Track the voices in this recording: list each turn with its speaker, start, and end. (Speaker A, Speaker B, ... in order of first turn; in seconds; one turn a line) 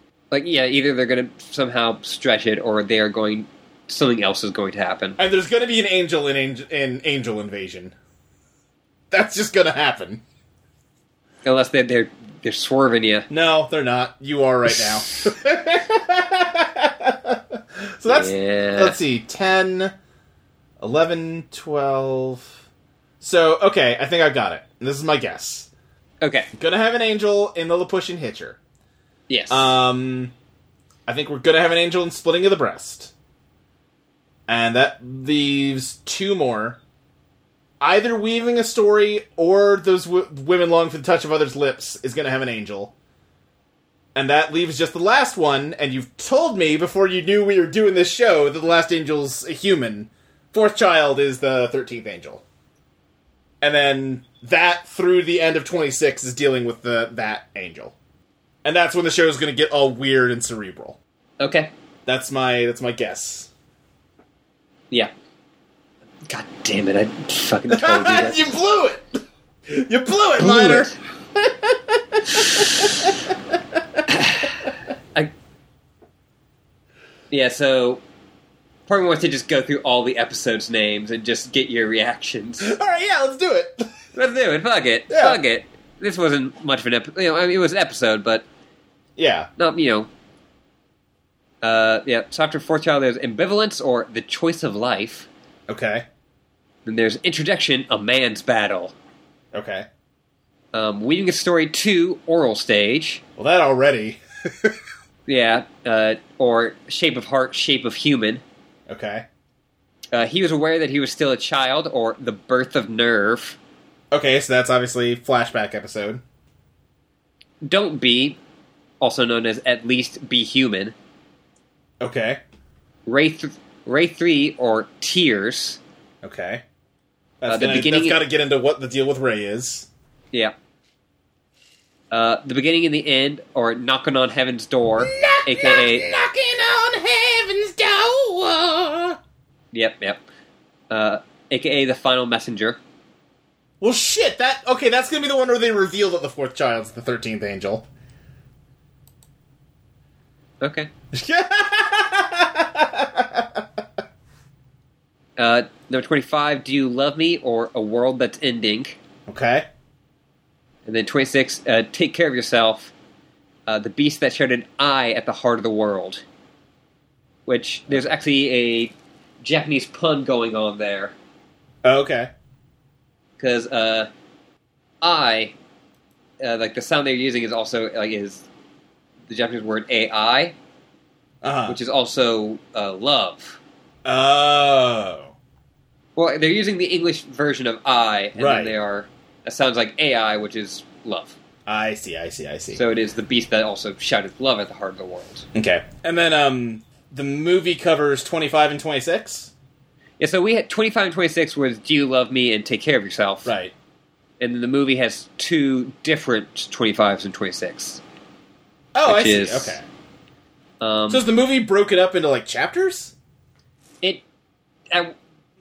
Speaker A: 0.3-5.2
Speaker B: 5.2-7.9
Speaker B: 9.1-10.2
Speaker A: 11.4-13.3
Speaker B: 13.3-19.9
Speaker A: 18.1-19.0
Speaker B: 20.8-22.5
Speaker B: 23.2-25.7
Speaker A: 26.2-26.5
Speaker B: 26.6-28.6
Speaker A: 29.3-29.7
Speaker B: 29.5-30.3
Speaker B: 31.1-33.1
Speaker B: 34.5-36.8
Speaker B: 37.8-42.9
Speaker B: 44.1-52.4
Speaker B: 53.6-57.9
Speaker B: 58.6-61.0
Speaker A: 61.4-61.7
Speaker B: 62.0-63.5
Speaker A: 66.3-68.5
Speaker B: 67.7-69.2
Speaker B: 69.7-74.0
Speaker A: 70.4-71.0
Speaker A: 72.4-73.1
Speaker A: 74.1-75.3
Speaker A: 77.3-78.0
Speaker A: 78.9-82.7
Speaker B: 82.6-83.9
Speaker A: 84.1-88.5
Speaker B: 85.1-85.4
Speaker B: 89.2-89.5
Speaker A: 89.6-90.1
Speaker A: 91.6-95.3
Speaker B: 95.7-96.0
Speaker A: 96.8-98.9
Speaker B: 99.5-99.9
Speaker A: 100.7-103.2
Speaker B: 103.4-104.8
Speaker A: 105.3-108.4
Speaker B: 108.9-109.3
Speaker A: 110.1-113.6
Speaker B: 114.1-116.2
Speaker A: 117.6-118.4
Speaker A: 119.0-120.9
Speaker B: 122.0-122.4
Speaker A: 123.0-125.8
Speaker B: 126.2-126.6
Speaker B: 127.4-129.9
Speaker A: 127.5-128.2
Speaker A: 132.1-136.1
Speaker B: 135.0-139.2
Speaker A: 139.7-140.2
Speaker A: 140.9-142.8
Speaker B: 143.8-147.8
Speaker A: 150.6-150.9
Speaker B: 151.1-153.8
Speaker A: 155.4-159.0
Speaker B: 159.3-159.7
Speaker A: 160.8-162.9
Speaker A: 163.7-166.2
Speaker A: 167.5-171.1
Speaker B: 171.8-172.3
Speaker A: 173.4-174.1
Speaker A: 175.0-175.5
Speaker A: 176.4-178.4
Speaker A: 179.3-180.5
Speaker B: 181.4-181.8
Speaker A: 181.7-183.6
Speaker B: 184.0-185.3
Speaker A: 186.2-191.3
Speaker B: 188.3-188.7
Speaker B: 191.7-192.8
Speaker A: 192.7-195.5
Speaker B: 195.5-199.5
Speaker A: 200.2-203.5
Speaker B: 203.4-203.7
Speaker A: 204.4-208.0
Speaker B: 208.9-209.8
Speaker A: 209.0-209.8
Speaker A: 210.8-211.2
Speaker B: 211.1-213.1